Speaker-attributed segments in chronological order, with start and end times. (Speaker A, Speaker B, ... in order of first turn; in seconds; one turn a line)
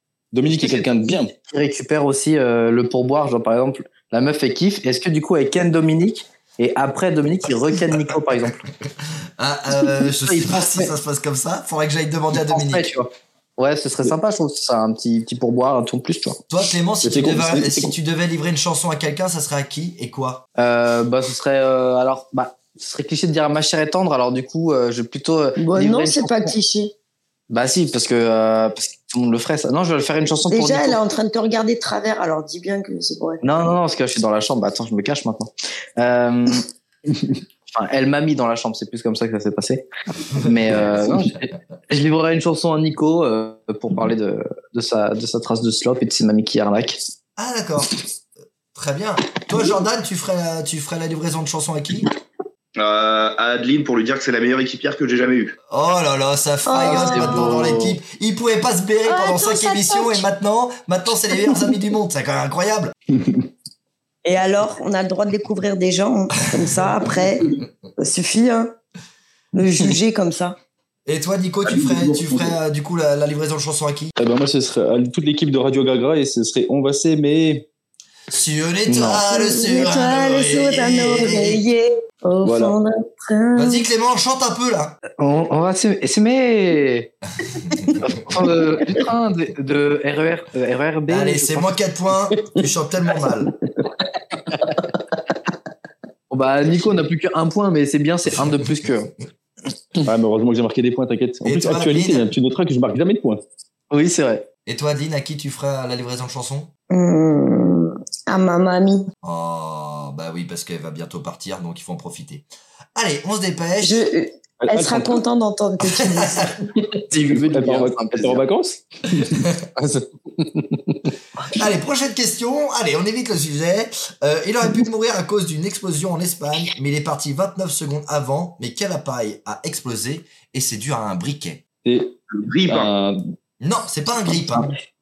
Speaker A: 0.3-1.3
Speaker B: 0.6-8.6
Speaker C: 7.9-8.2
Speaker C: 9.4-12.9
Speaker B: 10.2-10.9
Speaker B: 12.4-16.4
Speaker C: 16.5-20.4
Speaker A: 17.0-17.9
Speaker B: 20.6-26.5
Speaker D: 25.6-26.9
Speaker B: 27.5-31.0
Speaker D: 30.5-33.4
Speaker B: 33.4-36.7
Speaker B: 37.7-39.9
Speaker C: 40.3-41.0
Speaker B: 40.4-47.0
Speaker C: 47.4-48.0
Speaker C: 48.7-52.1
Speaker E: 52.8-55.5
Speaker C: 55.7-62.9
Speaker D: 56.7-57.5
Speaker B: 56.8-58.0
Speaker D: 59.1-60.3
Speaker D: 64.2-68.7
Speaker C: 66.5-66.9
Speaker D: 69.5-70.6
Speaker C: 71.1-74.1
Speaker A: 74.2-77.7
Speaker C: 78.3-81.6
Speaker B: 78.9-79.2
Speaker D: 79.3-83.9
Speaker A: 82.4-82.8
Speaker C: 83.5-85.0
Speaker B: 85.2-87.1
Speaker C: 87.4-88.2
Speaker B: 88.0-91.7
Speaker C: 91.1-93.5
Speaker B: 96.3-99.1
Speaker A: 100.0-103.4
Speaker C: 101.4-102.3
Speaker B: 103.9-104.5
Speaker C: 104.7-106.7
Speaker D: 106.9-109.1
Speaker C: 109.2-114.0
Speaker D: 113.8-116.5
Speaker A: 114.6-115.2
Speaker C: 116.0-116.5
Speaker B: 117.1-118.4
Speaker A: 117.3-120.1
Speaker C: 119.2-119.6
Speaker C: 121.5-131.6
Speaker A: 131.8-133.2
Speaker E: 132.3-132.9
Speaker C: 133.6-134.7